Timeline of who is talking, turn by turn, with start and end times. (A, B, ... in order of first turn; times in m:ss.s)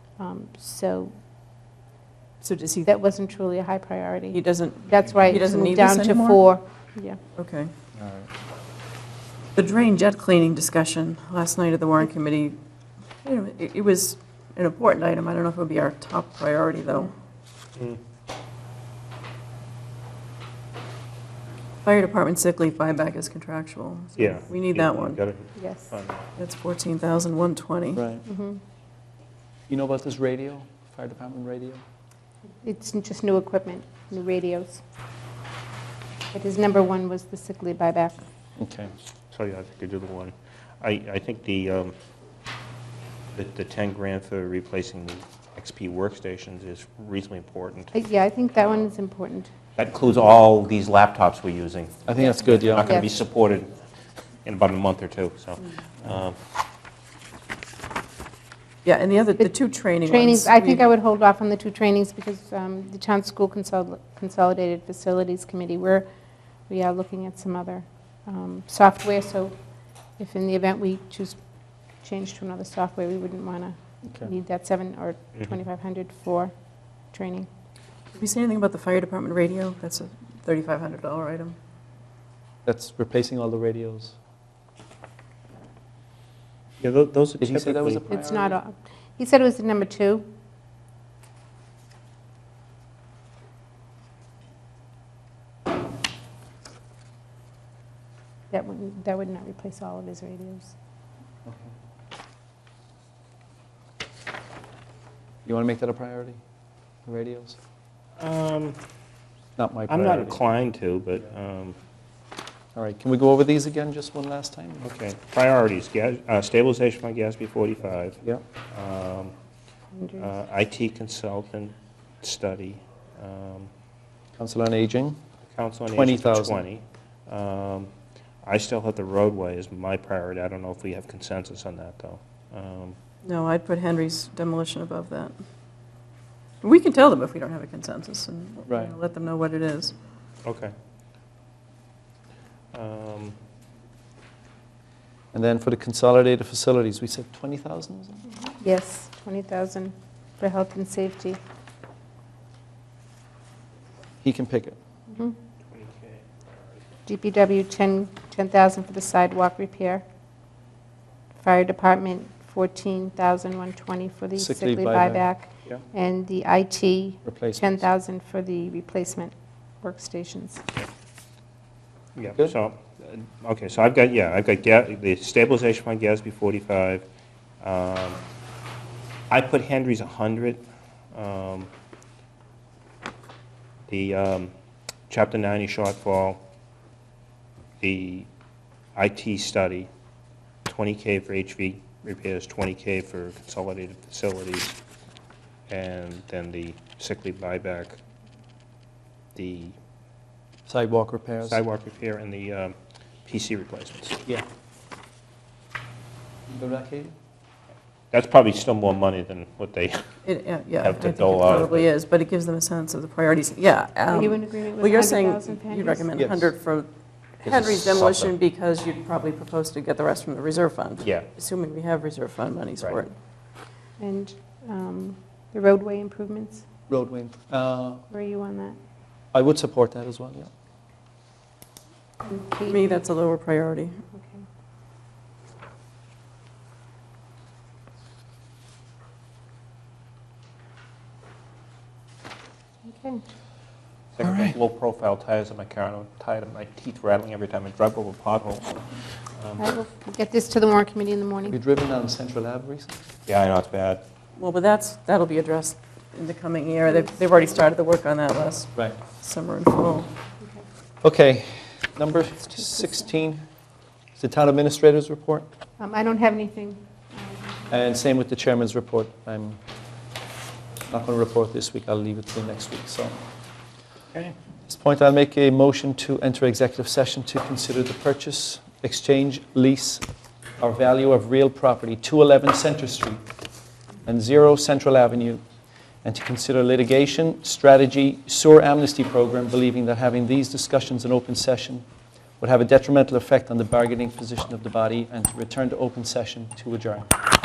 0:00.2-0:01.1 A
0:02.4-0:02.9 B
0:02.8-0:07.2 A
0:04.3-0:06.4 B
0:07.4-0:07.7 B
0:07.9-0:08.3 C
0:09.6-0:12.6 B
0:13.2-0:17.1 B
0:21.8-0:25.2 B
0:24.2-0:26.3 D
0:25.6-0:25.9 A
0:26.4-0:28.0 B
0:28.0-0:28.2 C
0:28.2-0:28.6 A
0:29.7-0:31.8 C
0:32.6-0:34.8 A
0:36.3-0:38.2 A
0:38.6-0:38.9 C
0:39.3-0:41.9 D
0:43.3-0:47.9 D
0:47.9-0:49.5 A
0:49.8-0:53.7 D
0:52.1-0:52.9 C
0:52.8-0:53.1 A
0:54.4-0:56.4 D
0:58.8-1:00.8 B
1:00.0-1:06.1 A
1:06.7-1:09.6 A
1:10.2-1:11.4 A
1:11.9-1:16.5 A
1:17.1-1:17.5 A
1:18.2-1:21.6 B
1:22.6-1:24.2 C
1:26.8-1:28.0 D
1:27.4-1:28.6 C
1:28.1-1:30.3 A
1:38.5-1:40.7 A
1:41.5-1:41.7 C
1:45.4-1:46.4 C
1:47.1-1:47.6 C
1:48.2-1:48.8 D
1:49.6-1:50.4 C
1:49.9-1:51.8 D
1:52.7-1:54.9 C
1:54.8-1:58.2 D
1:58.7-1:59.3 D
1:59.9-2:00.3 A
2:00.2-2:03.7 D
2:04.4-2:05.2 C
2:05.5-2:07.9 D
2:06.0-2:06.6 C
2:08.4-2:13.0 D
2:13.2-2:15.3 B
2:16.6-2:19.9 B
2:18.7-2:18.9 C
2:20.4-2:20.7 D
2:22.7-2:23.4 D
2:25.3-2:28.2 C
2:28.4-2:31.4 A
2:34.2-2:34.8 C
2:35.7-2:36.4 D
2:37.1-2:40.0 A
2:41.4-2:50.7 A
2:44.4-2:45.3 C
2:47.2-2:47.8 C
2:52.2-2:57.1 D
2:57.6-2:58.2 D
2:59.3-3:01.7 D
3:03.9-3:04.5 D
3:05.1-3:06.4 D
3:07.8-3:08.3 D
3:09.0-3:09.9 D
3:10.7-3:14.8 D
3:15.7-3:18.0 D
3:19.4-3:19.8 D
3:20.7-3:21.6 C
3:21.5-3:24.2 D
3:26.5-3:27.1 C
3:28.1-3:30.0 D
3:30.2-3:36.9 B
3:30.8-3:31.9 D
3:34.1-3:36.2 A
3:36.2-3:36.5 C
3:37.4-3:43.1 B
3:37.4-3:38.3 D
3:41.0-3:41.3 D
3:44.0-3:46.7 A
3:46.9-3:48.0 C
3:48.1-3:48.8 A
3:49.3-3:50.5 C
3:52.3-3:52.8 A
3:52.6-3:54.0 B
3:54.2-3:54.4 A
4:02.8-4:03.2 A
4:04.2-4:09.7 D
4:04.2-4:04.6 C
4:09.6-4:11.6 A
4:11.5-4:13.0 C
4:13.3-4:14.0 D
4:14.4-4:20.1 B
4:21.0-4:23.4 C
4:24.2-4:25.5 C
4:25.8-4:27.6 A
4:27.7-4:29.6 C
4:30.9-4:33.2 C
4:34.7-4:40.1 C
4:40.6-4:43.2 C
4:44.0-4:45.4 C
4:46.0-4:51.8 C
4:52.4-4:57.1 C